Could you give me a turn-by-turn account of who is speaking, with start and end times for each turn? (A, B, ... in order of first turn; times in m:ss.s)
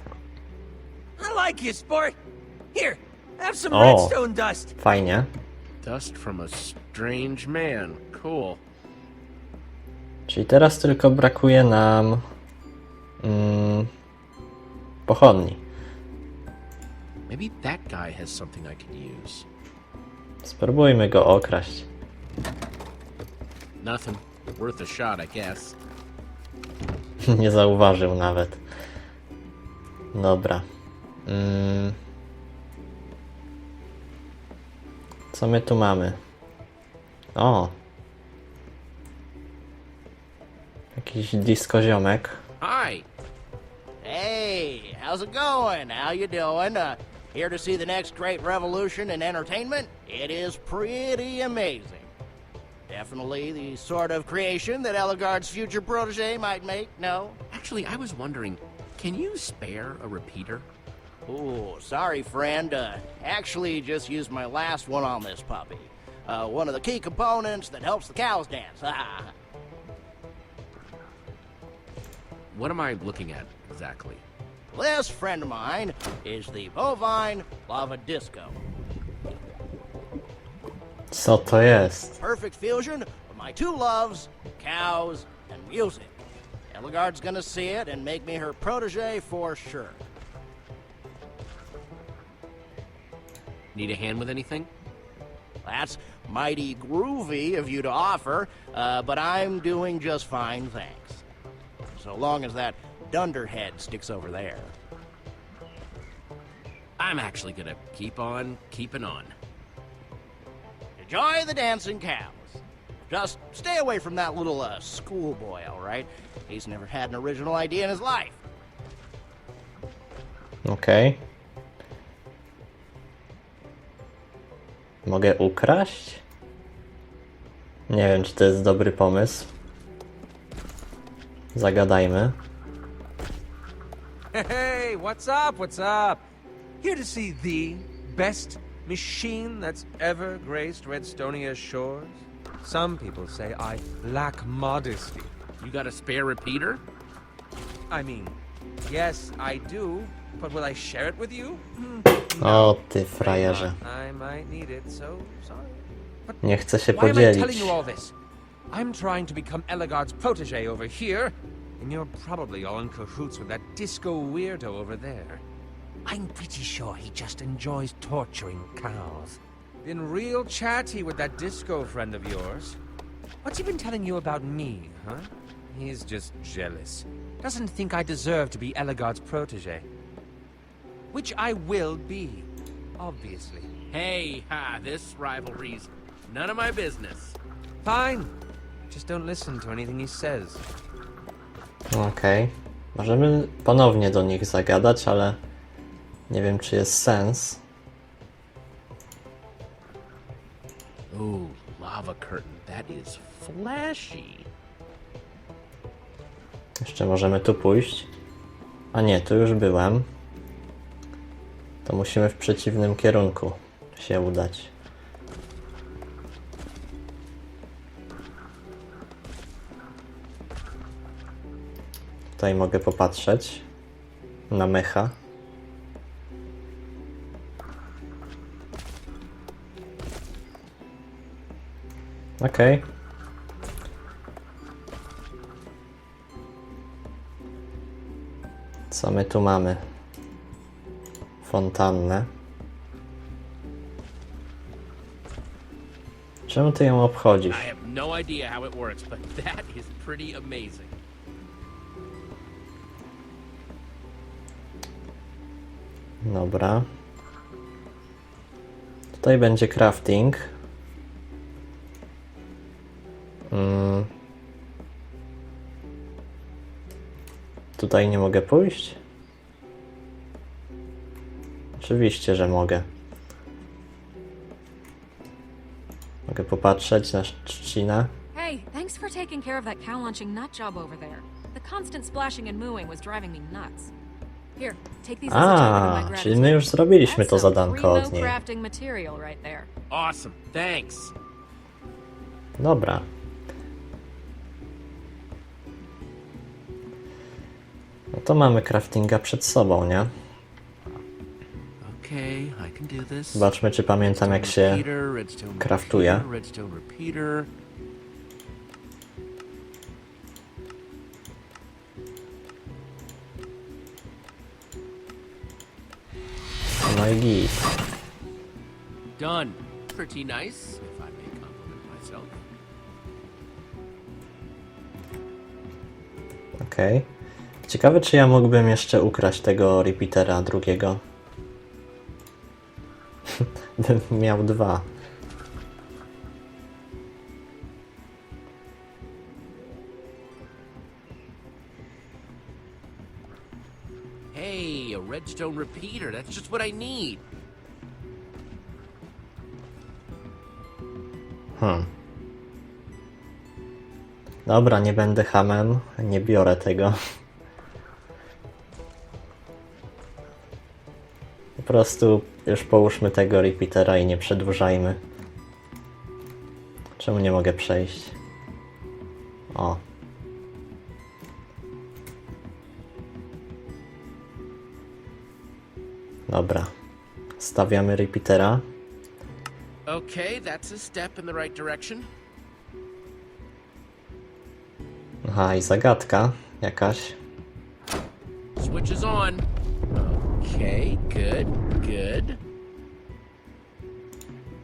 0:01.2-0:02.2 A
0:02.7-0:04.7 A
0:03.7-0:04.2 B
0:04.8-0:05.3 B
0:05.8-0:08.6 C
0:10.3-0:12.2 B
0:13.2-0:13.9 B
0:15.0-0:15.6 B
0:17.3-0:19.4 C
0:20.4-0:21.9 B
0:23.8-0:25.8 C
0:27.2-0:28.6 B
0:30.1-0:30.6 B
0:31.2-0:32.0 B
0:35.3-0:36.2 B
0:37.3-0:37.7 B
0:41.0-0:42.4 B
0:42.6-0:43.0 C
0:44.0-0:52.1 D
0:52.9-0:57.4 D
0:57.5-1:00.7 C
1:01.2-1:09.3 D
1:12.5-1:14.2 C
1:14.7-1:18.6 D
1:21.1-1:22.2 B
1:22.2-1:26.1 D
1:26.7-1:30.0 D
1:33.7-1:34.7 C
1:35.6-1:41.2 D
1:41.9-1:44.7 D
1:47.0-1:49.3 C
1:51.0-1:58.4 D
2:00.6-2:01.2 B
2:05.0-2:06.2 B
2:07.9-2:09.5 B
2:11.5-2:12.4 B
2:14.3-2:16.2 A
2:16.8-2:25.3 A
2:25.6-2:26.8 C
2:27.9-2:38.1 A
2:32.4-2:33.7 B
2:36.4-2:37.8 B
2:38.7-2:45.4 A
2:46.0-2:52.8 A
2:53.4-2:59.8 A
3:01.1-3:03.7 A
3:03.9-3:07.4 C
3:07.8-3:08.3 A
3:08.9-3:10.6 A
3:11.9-3:15.4 B
3:16.3-3:17.6 B
3:21.1-3:24.5 C
3:26.8-3:28.1 B
3:28.9-3:30.1 B
3:31.8-3:34.7 B
3:42.4-3:43.6 B
3:44.5-3:45.2 B
3:52.4-3:52.8 B
3:58.9-3:59.8 B
4:01.4-4:02.3 B
4:06.5-4:07.7 B
4:07.5-4:11.0 C
4:16.2-4:16.9 B
4:19.2-4:20.5 B
4:23.5-4:24.1 B
4:27.8-4:29.0 B
4:31.8-4:32.8 B
4:36.3-4:38.1 B
4:38.3-4:43.9 E
4:44.6-4:49.7 E
4:45.3-4:48.3 B
4:49.9-4:51.1 C
4:52.6-4:53.0 B
4:58.1-5:00.1 B
5:01.8-5:03.5 C
5:03.3-5:04.8 B
5:04.0-5:07.5 C
5:05.6-5:06.2 B
5:16.8-5:17.6 B
5:19.2-5:22.3 C
5:26.6-5:27.1 B
5:27.6-5:31.0 B
5:33.3-5:34.8 B
5:44.3-5:47.2 C
5:51.6-5:51.9 B
5:54.4-5:57.0 B
6:01.6-6:05.0 B
6:07.0-6:08.1 B
6:09.5-6:09.8 B
6:16.3-6:16.7 B
6:17.4-6:18.6 B
6:19.9-6:22.1 C
6:25.2-6:27.2 B
6:28.6-6:32.4 C